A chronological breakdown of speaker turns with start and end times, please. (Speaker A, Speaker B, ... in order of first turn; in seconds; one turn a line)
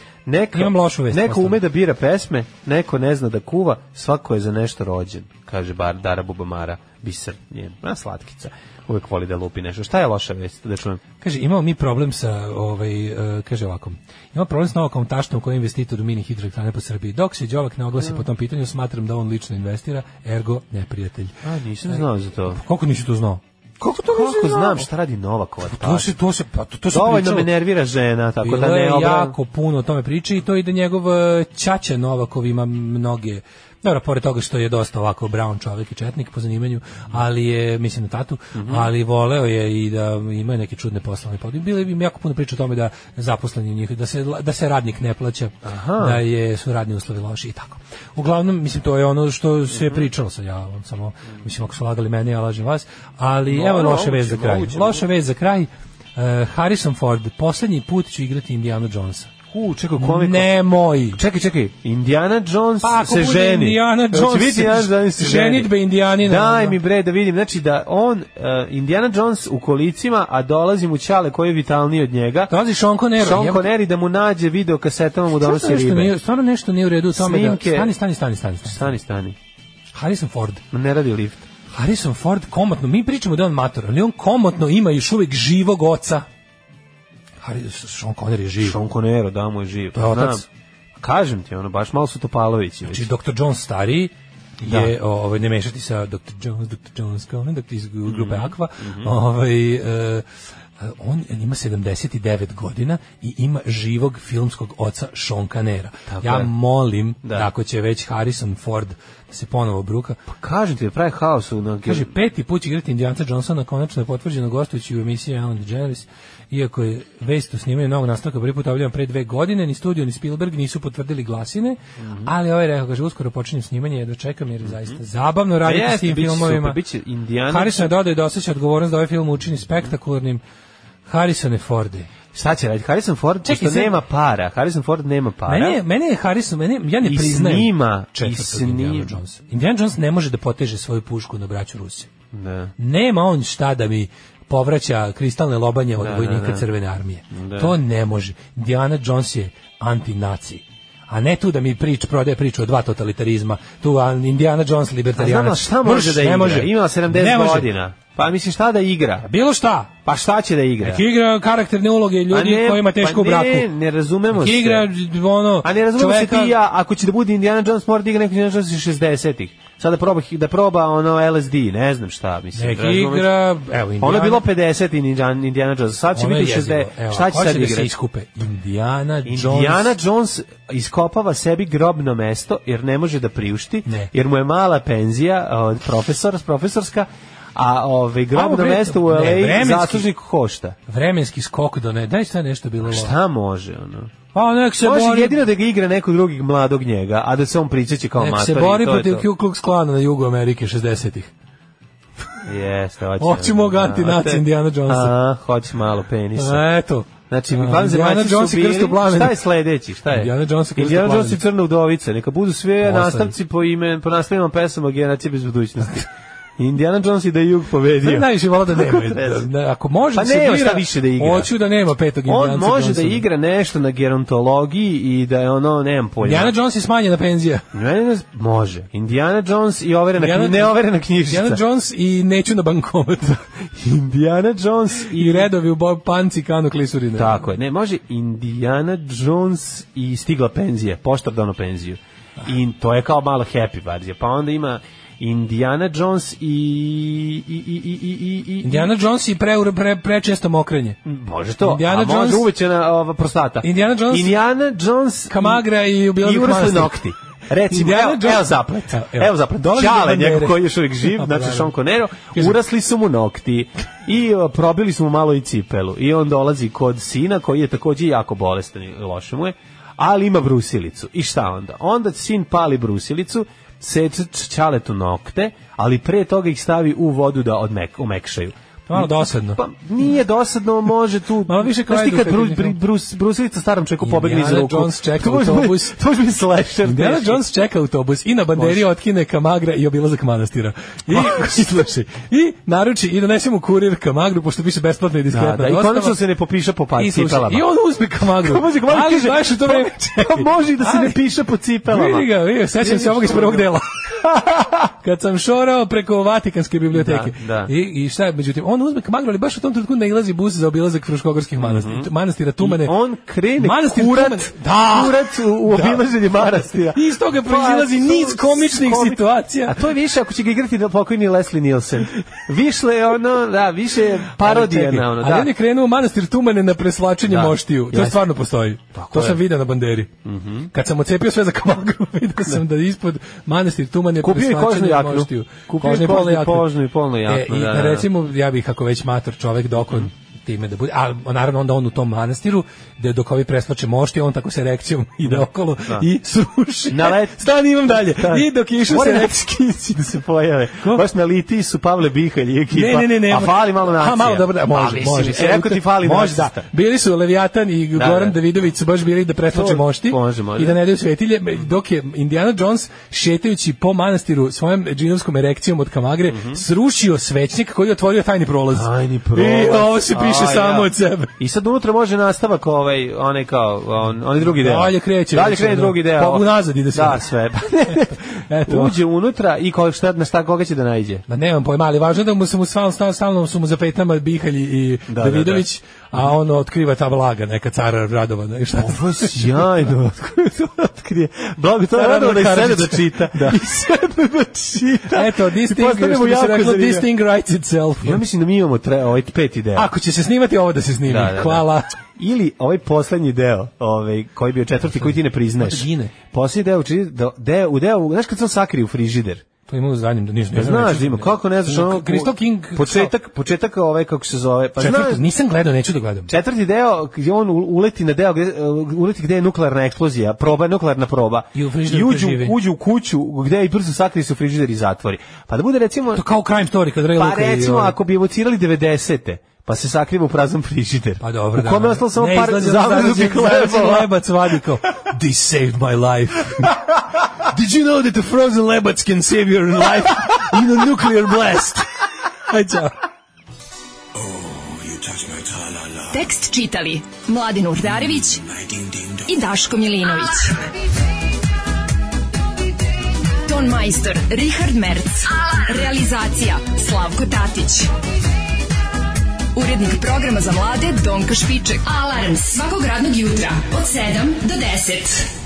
Speaker A: 0.3-11.0
Speaker B: 0.5-1.6
Speaker B: 11.2-21.3
Speaker A: 21.4-22.6
Speaker B: 21.9-24.9
Speaker A: 23.9-26.1
Speaker B: 25.6-27.5
Speaker A: 26.9-29.4
Speaker B: 28.4-59.3
Speaker A: 38.5-38.9
Speaker A: 45.6-46.2
Speaker A: 49.7-50.1
Speaker A: 53.5-55.1
Speaker A: 59.5-60.6
Speaker B: 60.0-61.2
Speaker A: 61.1-72.5
Speaker B: 62.8-66.8
Speaker B: 72.5-73.7
Speaker A: 73.2-76.2
Speaker B: 75.4-78.9
Speaker A: 77.2-78.0
Speaker A: 78.7-79.4
Speaker B: 79.9-80.6
Speaker A: 80.7-81.5
Speaker B: 81.7-86.3
Speaker B: 87.4-88.8
Speaker A: 88.6-90.5
Speaker B: 90.0-90.5
Speaker A: 91.0-93.1
Speaker B: 92.9-100.2
Speaker A: 94.6-94.9
Speaker A: 98.1-99.1
Speaker B: 100.8-110.2
Speaker A: 106.1-106.5
Speaker A: 107.2-107.5
Speaker A: 110.3-112.1
Speaker B: 111.9-126.8
Speaker A: 122.0-122.3
Speaker A: 124.6-125.0
Speaker A: 125.6-127.9
Speaker B: 127.5-130.4
Speaker B: 131.1-132.1
Speaker A: 132.3-135.8
Speaker B: 133.4-134.0
Speaker B: 135.5-142.1
Speaker A: 137.0-139.2
Speaker A: 142.3-142.7
Speaker B: 142.8-157.7
Speaker A: 146.0-146.7
Speaker A: 147.3-147.8
Speaker A: 155.2-159.3
Speaker B: 159.2-159.9
Speaker A: 160.1-161.1
Speaker B: 160.8-163.7
Speaker A: 162.3-164.9
Speaker B: 164.3-166.6
Speaker A: 165.6-173.3
Speaker B: 172.6-174.5
Speaker A: 174.0-177.9
Speaker B: 176.1-180.0
Speaker A: 179.3-190.8
Speaker B: 183.9-184.1
Speaker B: 188.3-190.1
Speaker B: 190.9-193.1
Speaker A: 192.8-194.1
Speaker B: 194.3-195.4
Speaker A: 194.8-199.3
Speaker B: 198.2-201.3
Speaker A: 202.4-206.7
Speaker B: 203.2-205.2
Speaker B: 206.4-209.4
Speaker A: 207.3-219.5
Speaker B: 210.1-211.4
Speaker B: 212.8-213.3
Speaker B: 218.0-223.2
Speaker A: 220.1-221.5
Speaker A: 222.3-226.6
Speaker B: 226.2-227.7
Speaker A: 227.7-231.6
Speaker B: 230.2-233.6
Speaker A: 233.8-235.5
Speaker B: 235.1-237.4
Speaker A: 237.2-248.9
Speaker B: 248.6-251.0
Speaker A: 251.0-287.4
Speaker B: 251.6-252.5
Speaker B: 253.6-254.4
Speaker B: 255.3-257.0
Speaker B: 257.7-261.8
Speaker B: 278.9-279.6
Speaker B: 281.5-282.8
Speaker B: 284.0-285.9
Speaker B: 286.9-296.2
Speaker A: 288.6-288.9
Speaker A: 291.1-291.7
Speaker A: 295.3-297.7
Speaker B: 297.0-301.2
Speaker A: 298.2-304.7
Speaker B: 301.9-313.0
Speaker A: 306.9-307.7
Speaker A: 311.6-312.1
Speaker A: 312.6-325.5
Speaker B: 313.6-319.8
Speaker B: 324.3-330.1
Speaker A: 327.3-328.2
Speaker A: 328.9-329.4
Speaker A: 330.2-330.7
Speaker B: 330.7-336.7
Speaker A: 334.2-338.1
Speaker B: 337.2-350.1
Speaker A: 339.9-340.1
Speaker A: 345.2-346.1
Speaker A: 346.9-356.7
Speaker B: 352.7-371.3
Speaker A: 357.9-358.4
Speaker A: 359.5-360.8
Speaker A: 366.3-366.6
Speaker A: 368.7-381.2
Speaker B: 374.4-377.4
Speaker B: 377.9-379.0
Speaker B: 381.3-389.6
Speaker A: 385.1-385.7
Speaker A: 388.8-397.1
Speaker B: 391.9-393.8
Speaker B: 395.0-398.2
Speaker A: 398.0-399.9
Speaker B: 399.8-401.9
Speaker A: 401.1-409.4
Speaker B: 404.9-406.1
Speaker B: 409.7-413.1
Speaker A: 410.5-415.3
Speaker B: 414.8-416.3
Speaker A: 416.3-426.3
Speaker B: 421.5-422.6
Speaker B: 426.1-428.0
Speaker A: 427.1-434.1
Speaker B: 431.2-436.9
Speaker B: 437.5-441.9
Speaker B: 442.5-443.0
Speaker C: 446.1-448.5
Speaker C: 449.2-450.6
Speaker C: 453.4-457.9
Speaker C: 459.5-465.3